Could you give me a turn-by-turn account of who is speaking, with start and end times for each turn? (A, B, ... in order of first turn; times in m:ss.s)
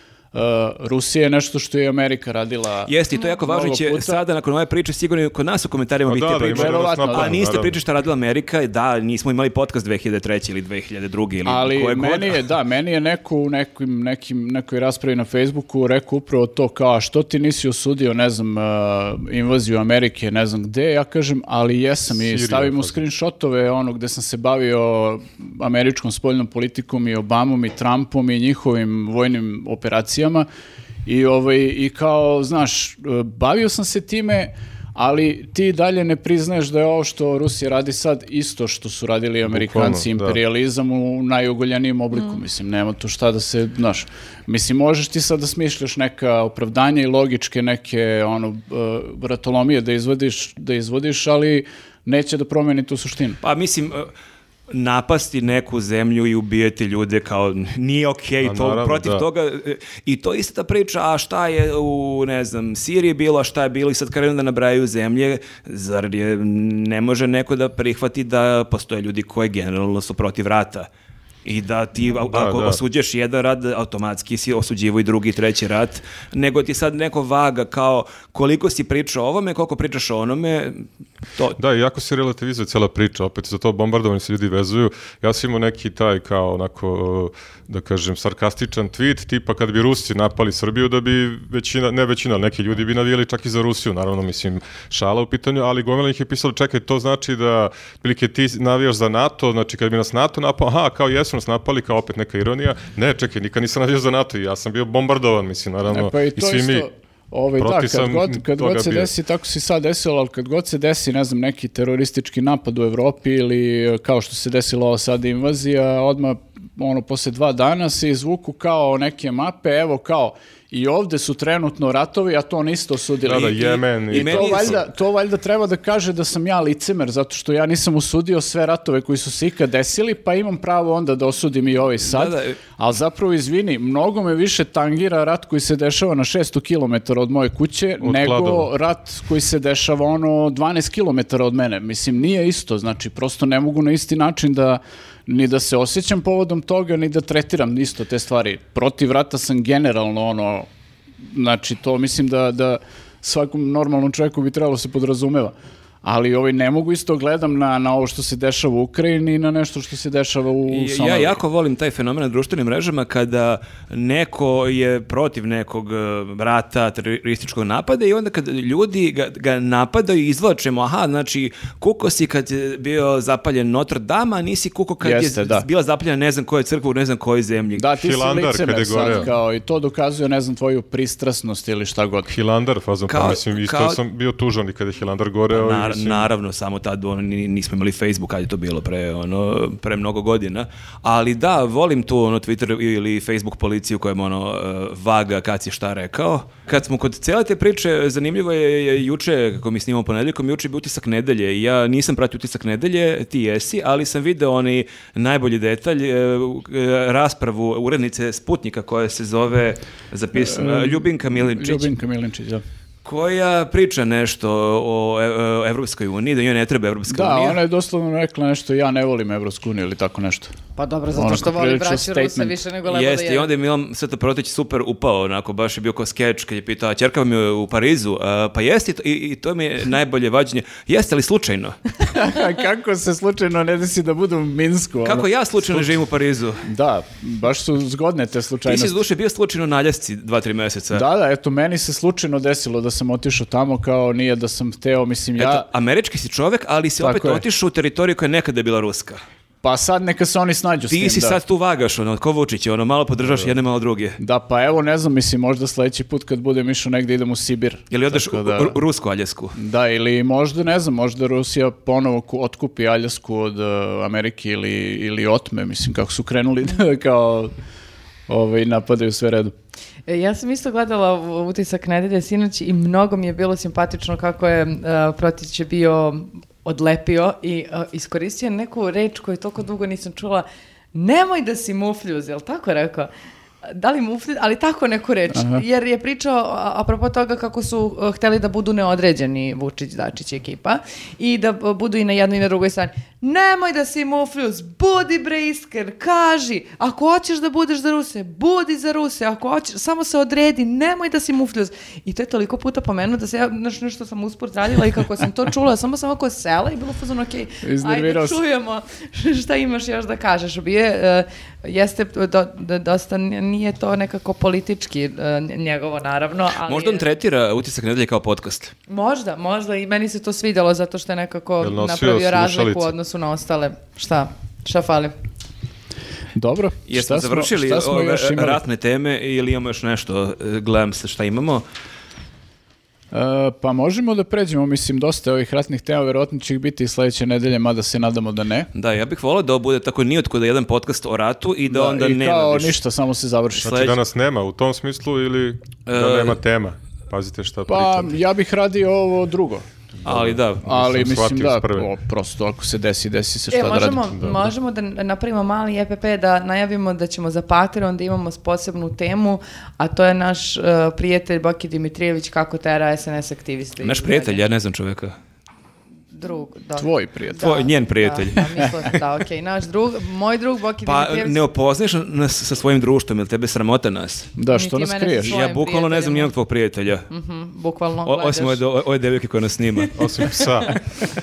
0:00.3-0:04.2 A
0:02.9-0:12.4 B
0:06.1-0:07.8 C
0:06.4-0:07.7 A
0:11.4-0:30.5 A
0:22.1-0:23.0 C
0:31.0-0:53.4 A
0:39.5-0:40.4 C
0:53.4-0:54.1 B
0:54.7-1:10.9 B
0:58.4-0:59.2 C
1:11.4-1:21.6 B
1:12.3-1:12.8 C
1:21.6-1:46.9 C
1:45.9-2:30.7 A
1:47.6-1:49.1 C
2:03.2-2:04.8 C
2:04.1-2:04.8 B
2:12.0-2:12.6 B
2:18.0-2:18.7 C
2:31.2-2:41.4 A
2:40.7-2:57.9 B
2:55.0-2:55.7 A
2:57.8-3:02.3 A
2:58.0-2:59.3 C
3:02.3-3:06.3 C
3:03.1-3:04.0 B
3:05.5-3:31.9 B
3:30.4-3:32.6 A
3:33.0-3:37.6 B
3:37.1-3:40.5 A
3:40.8-3:43.5 D
3:41.2-3:42.6 A
3:42.9-3:51.8 B
3:52.0-3:55.9 A
3:55.0-3:56.6 B
3:56.6-3:59.0 A
3:58.7-4:01.0 B
4:00.9-4:05.7 A
4:05.4-4:09.2 B
4:07.0-4:07.4 A
4:09.6-4:11.4 A
4:10.9-4:14.2 B
4:14.2-4:18.8 A
4:17.9-4:19.6 B
4:19.6-4:27.5 A
4:28.3-4:29.5 A
4:30.1-4:43.1 D
4:43.7-5:17.0 D
4:45.4-4:45.6 A
5:07.6-5:08.4 A
5:16.7-5:18.7 B
5:18.9-5:25.2 D
5:21.6-5:22.9 C
5:26.4-5:28.6 A
5:26.9-5:31.6 B
5:33.1-5:38.7 A
5:38.7-5:42.8 B
5:41.7-5:43.9 A
5:43.6-5:44.0 B
5:43.6-5:48.1 C
5:45.9-5:46.4 B
5:47.7-5:49.6 A
5:50.0-5:50.6 B
5:50.1-5:51.9 C
5:50.6-5:54.1 A
5:53.5-6:04.4 D
5:54.2-5:54.4 C
6:03.8-6:05.2 B
6:06.1-6:11.4 D
6:06.8-6:07.5 A
6:07.4-6:09.0 B
6:10.8-6:14.3 B
6:14.4-6:15.4 A
6:14.5-6:16.3 D
6:15.2-6:17.1 B
6:17.1-6:18.6 D
6:18.1-6:20.0 B
6:20.0-6:20.8 C
6:20.2-6:20.8 D